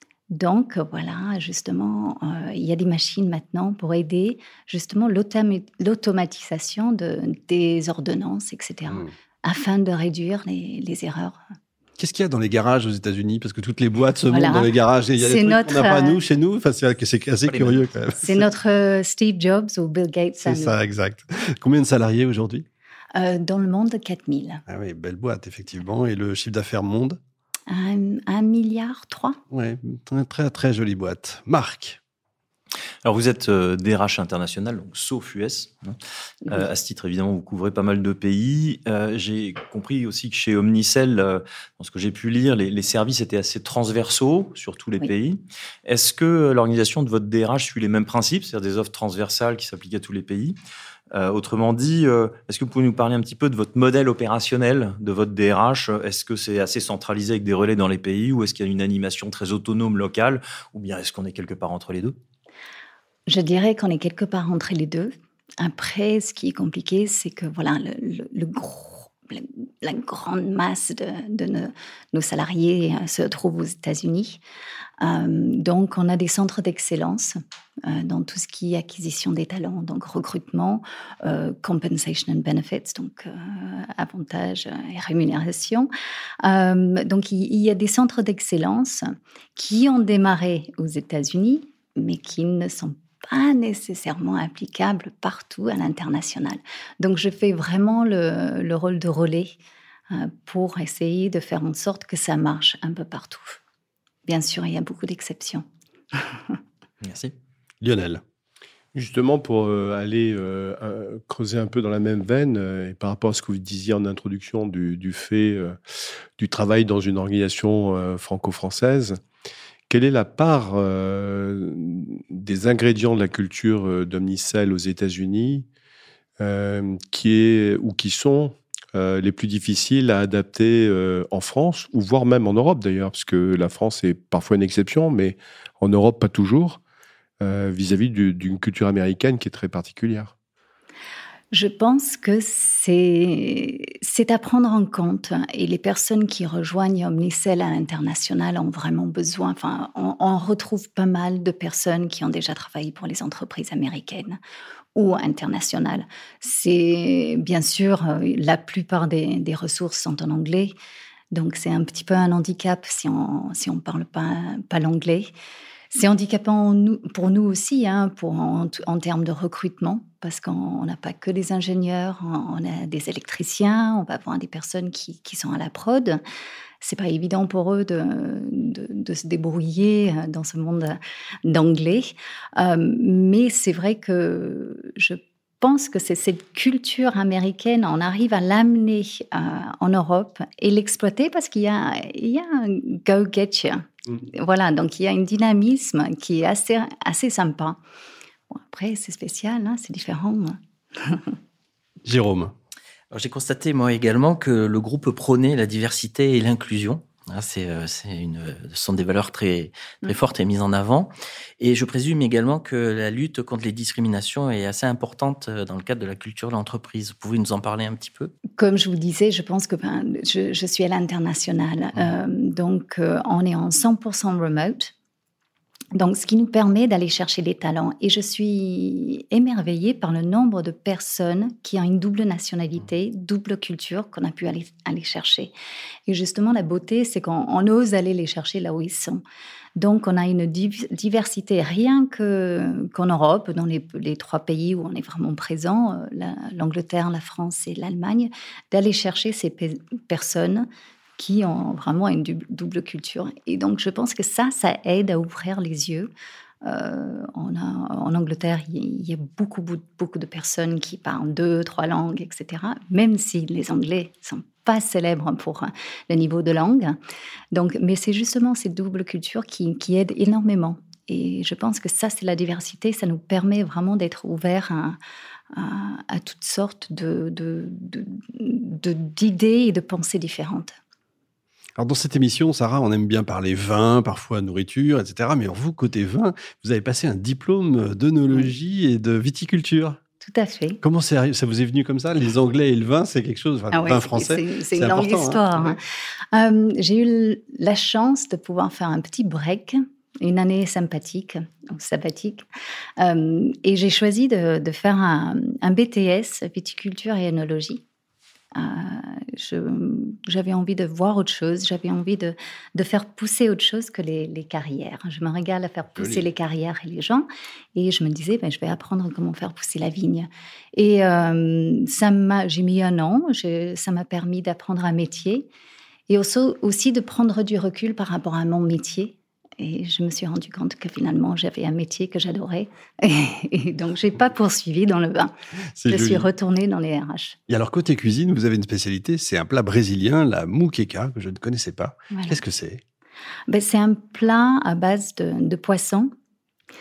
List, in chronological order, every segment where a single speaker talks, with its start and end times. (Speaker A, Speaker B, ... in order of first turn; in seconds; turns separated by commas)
Speaker A: 0.3-11.4, Speaker B: 12.0-18.5, Speaker A: 14.3-16.2, Speaker C: 17.5-17.8, Speaker A: 18.2-20.8, Speaker B: 20.4-22.7, Speaker A: 23.1-24.6, Speaker B: 24.7-27.2, Speaker A: 27.7-29.4, Speaker B: 29.5-32.0, Speaker C: 33.0-36.0, Speaker C: 36.5-50.6, Speaker C: 51.1-62.2, Speaker A: 63.3-74.4, Speaker A: 75.0-85.9, Speaker A: 86.4-99.5, Speaker A: 100.1-103.6, Speaker A: 104.3-105.6, Speaker C: 107.0-107.3, Speaker B: 107.8-108.2, Speaker D: 108.9-115.8, Speaker D: 116.4-119.2, Speaker D: 119.9-125.7, Speaker D: 126.4-136.8, Speaker D: 137.4-140.3, Speaker A: 141.5-154.4, Speaker A: 154.9-160.8, Speaker A: 161.3-165.3, Speaker A: 165.9-176.2, Speaker A: 176.8-197.8, Speaker A: 198.5-200.6, Speaker B: 202.0-202.5, Speaker E: 203.1-218.3, Speaker A: 218.6-224.9, Speaker A: 225.9-235.5, Speaker A: 236.1-239.2, Speaker A: 239.8-256.1, Speaker A: 256.6-267.0, Speaker A: 267.5-275.0, Speaker A: 275.5-280.7, Speaker B: 281.8-290.0, Speaker A: 290.2-290.8, Speaker B: 290.8-295.8, Speaker A: 293.7-295.8, Speaker A: 296.3-302.4, Speaker A: 303.0-307.8, Speaker A: 308.6-325.5, Speaker B: 316.0-316.3, Speaker A: 326.1-335.3, Speaker B: 335.8-336.3, Speaker A: 335.9-337.4, Speaker B: 337.5-342.8, Speaker A: 342.1-342.4, Speaker A: 343.5-346.1